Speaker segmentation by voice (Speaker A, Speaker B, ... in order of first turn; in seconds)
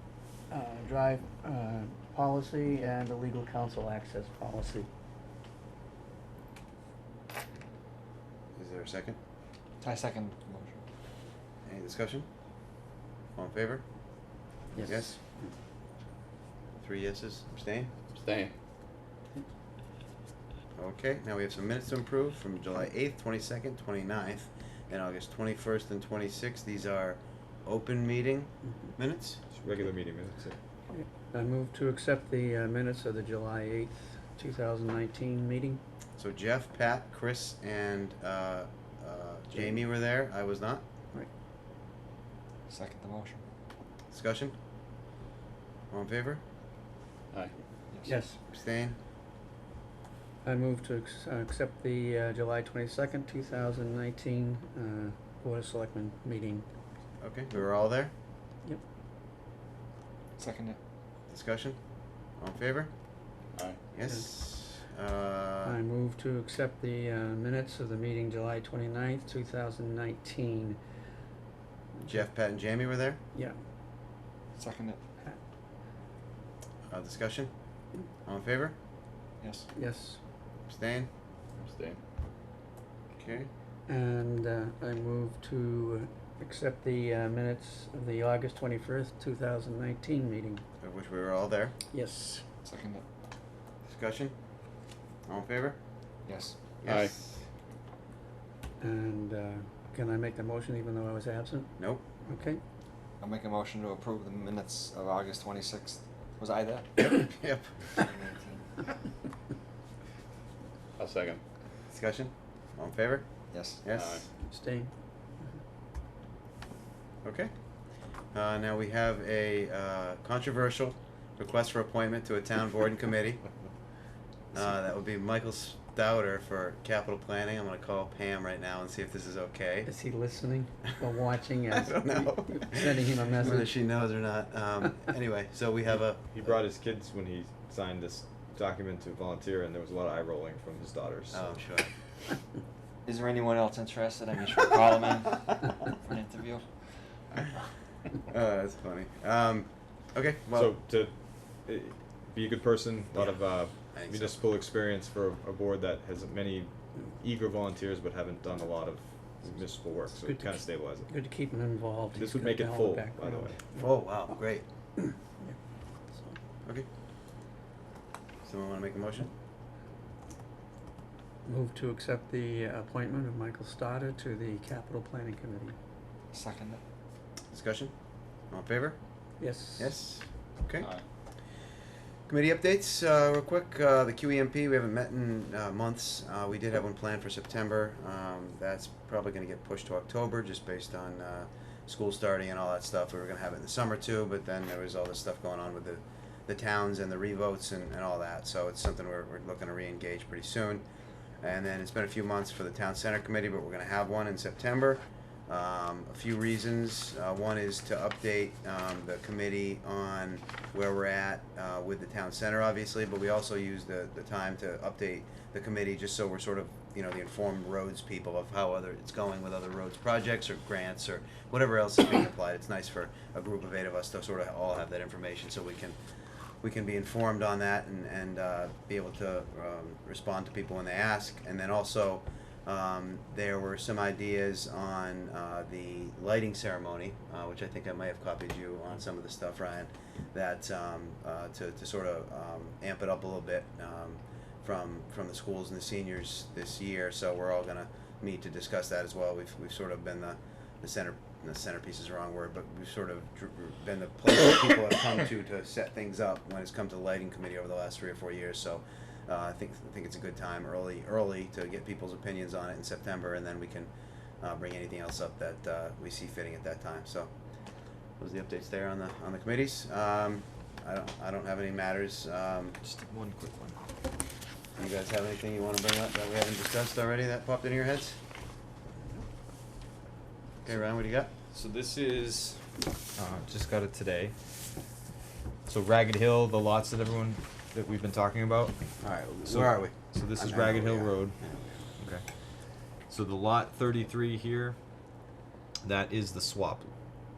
Speaker A: 0.5-4.9, 14.7-15.5, 30.9-35.8, 48.0-48.4, 50.4-56.7, 65.7-70.8, 72.0-72.3, 79.8-80.2, 83.9-90.6, 91.9-92.4, 98.8-102.6, 114.5-114.9, 129.8-133.7, 160.2-163.9, 165.0-165.6, 171.5-175.8, 179.4-180.0
Speaker B: 8.6-9.2, 11.7-12.3, 13.4-13.8, 14.8-15.2, 16.8-17.9, 20.8-29.4, 36.2-40.8, 44.1-44.5, 45.9-46.4, 48.5-49.0, 57.2-58.1, 61.3-61.8, 62.4-62.9, 63.9-65.8, 72.1-73.2, 76.9-77.5, 78.2-78.8, 80.7-81.1, 83.2-83.5, 90.8-91.8, 93.9-94.3, 95.3-95.8, 96.8-97.3, 101.8-102.0, 107.0-107.8, 111.9-113.2, 113.8-114.3, 117.2-117.5, 118.3-123.4, 124.5-129.9, 131.7-136.2, 141.3-141.9, 148.3-150.7, 153.1-154.4, 163.8-164.7, 168.4-169.3, 177.5-177.9, 178.5-179.0, 179.8-180.9, 182.3-200.8, 201.4-226.0, 226.6-263.9, 264.4-267.3, 268.2-272.8, 274.8-278.2, 280.6-281.3, 289.0-291.9
Speaker C: 9.8-10.8, 42.7-43.4, 60.4-60.8, 74.5-75.0, 79.4-79.7, 92.6-93.0, 96.3-96.6, 103.2-106.9, 108.0-108.7, 113.5-113.8, 143.1-146.7, 176.3-176.8, 272.8-273.8
Speaker D: 18.1-18.5, 81.6-82.0, 96.8-97.2, 111.0-111.4, 113.9-114.3
Speaker E: 29.6-30.6, 136.4-141.4, 150.6-161.1, 162.2-163.5, 281.5-282.6, 283.2-284.4, 285.7-288.8, 289.4-291.4, 292.0-292.2, 293.1-294.8, 295.8-296.9